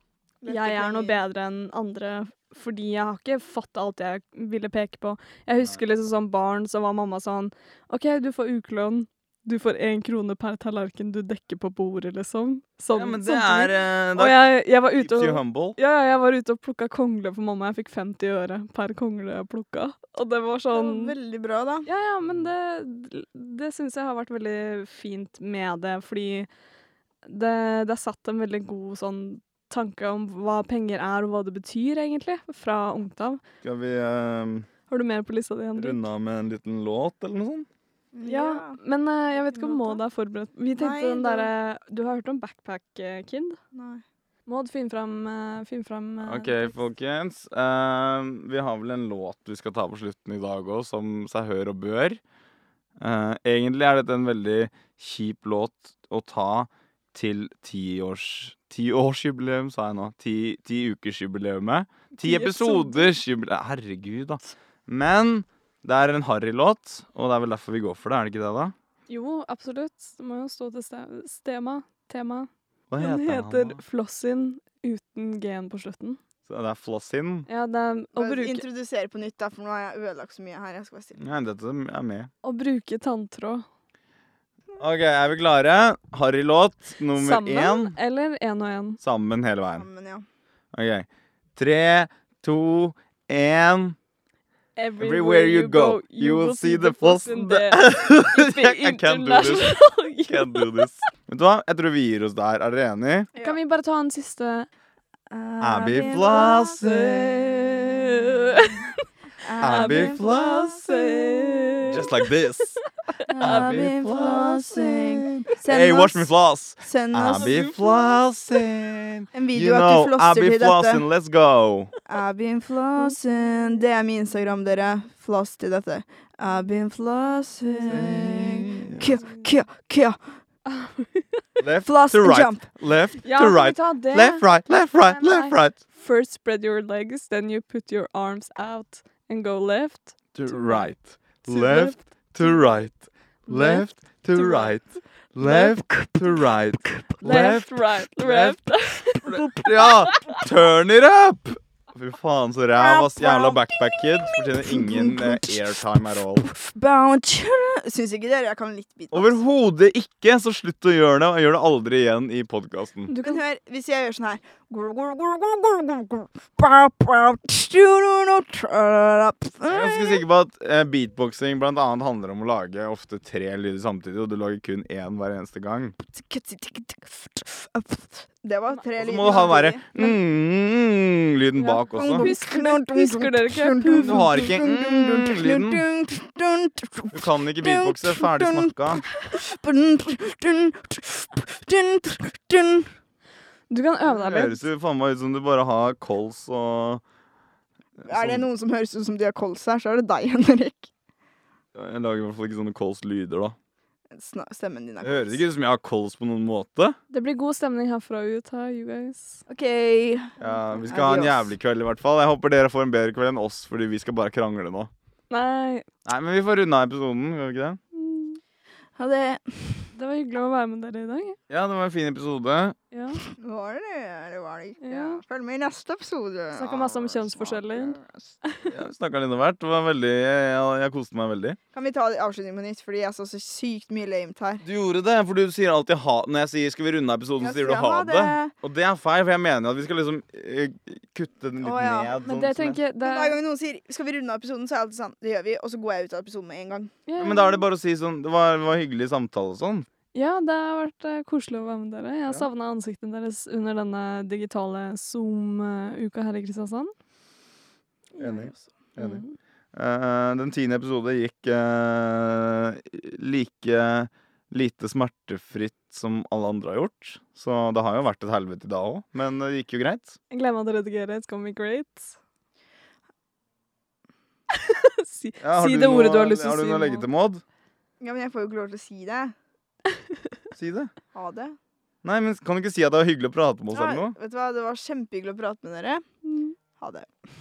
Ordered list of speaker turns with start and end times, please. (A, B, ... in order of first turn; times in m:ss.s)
0:00.4-0:01.2 A
0:00.4-0:21.2 B
0:12.9-0:15.8 C
0:20.7-0:21.9 A
0:21.9-0:26.5 B
0:27.2-0:33.4 B
0:33.6-0:34.7 C
0:34.9-0:36.0 B
0:35.7-0:37.7 C
0:38.1-0:38.8 A
0:38.2-0:43.6 B
0:39.5-0:40.0 A
0:40.8-0:41.5 A
0:43.7-0:44.0 A
0:44.5-0:46.7 B
0:46.2-0:52.2 C
0:53.0-1:08.7 C
1:02.2-1:03.2 B
1:09.1-1:16.2 B
1:12.9-1:13.8 C
1:16.5-1:17.5 C
1:17.5-1:18.6 B
1:18.2-1:21.2 A
1:21.2-1:22.3 C
1:22.4-1:23.6 B
1:24.8-1:28.0 C
1:27.2-1:29.0 B
1:29.0-1:29.8 C
1:29.7-1:30.2 A
1:30.7-1:34.0 C
1:34.8-1:40.9 B
1:35.0-1:43.3 C
1:43.4-1:44.7 B
1:45.3-1:48.6 A
1:45.6-1:47.3 C
1:47.1-1:49.0 B
1:49.4-1:51.9 A
1:49.6-1:52.6 B
1:49.6-1:50.8 C
1:51.8-1:52.8 C
1:53.3-1:58.1 A
1:53.4-1:53.9 B
1:53.4-2:01.9 C
1:57.4-1:57.6 B
1:59.3-2:01.0 A
2:02.1-2:10.2 A
2:07.9-2:09.0 C
2:09.0-2:09.4 B
2:10.6-2:11.4 B
2:11.6-2:15.8 C
2:11.8-2:12.6 A
2:13.2-2:20.8 B
2:20.3-2:28.6 C
2:21.5-2:22.6 B
2:23.5-2:24.7 B
2:25.4-2:25.8 B
2:27.2-2:30.4 B
2:29.2-2:36.4 C
2:29.5-2:29.9 A
2:32.8-2:35.8 A
2:36.4-2:39.4 A
2:39.1-2:43.1 C
2:43.1-2:43.4 B
2:43.2-2:50.2 A
2:49.7-2:56.0 C
2:56.0-3:00.2 A
2:59.0-3:02.3 C
3:01.6-3:04.5 B
3:01.9-3:12.9 A
3:04.0-3:05.8 C
3:07.1-3:09.1 C
3:13.7-3:14.6 B
3:14.0-3:17.0 C
3:18.0-3:18.4 C
3:18.0-3:20.9 A
3:21.7-3:23.6 C
3:24.1-3:25.4 A
3:25.0-3:27.0 C
3:27.1-3:29.4 B
3:29.5-3:31.5 A
3:30.4-3:34.9 C
3:35.3-3:35.9 B
3:36.0-3:37.8 C
3:37.9-3:38.4 B
3:39.0-3:39.9 A
3:39.9-3:41.4 B
3:41.5-3:42.8 C
3:42.9-3:43.2 B
3:43.4-3:46.8 A
3:44.8-3:45.2 B
3:46.5-3:48.7 B
3:46.7-3:47.6 C
3:47.7-3:48.3 A
3:48.6-3:51.6 C
3:51.7-3:54.6 A
3:54.6-4:02.8 C
3:57.4-3:58.5 A
4:01.6-4:02.1 A
4:02.2-4:03.4 B
4:03.0-4:06.9 A
4:07.1-4:07.6 B
4:07.2-4:09.9 C
4:10.1-4:16.9 B
4:18.2-4:18.7 A
4:18.2-4:19.2 C
4:19.0-4:19.3 B
4:19.7-4:30.1 C
4:30.3-4:32.1 B
4:34.5-4:37.0 B
4:35.4-4:37.4 C
4:38.0-4:39.3 A
4:40.5-4:40.9 C
4:41.1-4:41.6 A
4:42.0-4:44.1 C
4:43.7-4:46.0 A
4:46.2-4:46.5 B
4:46.8-4:47.1 A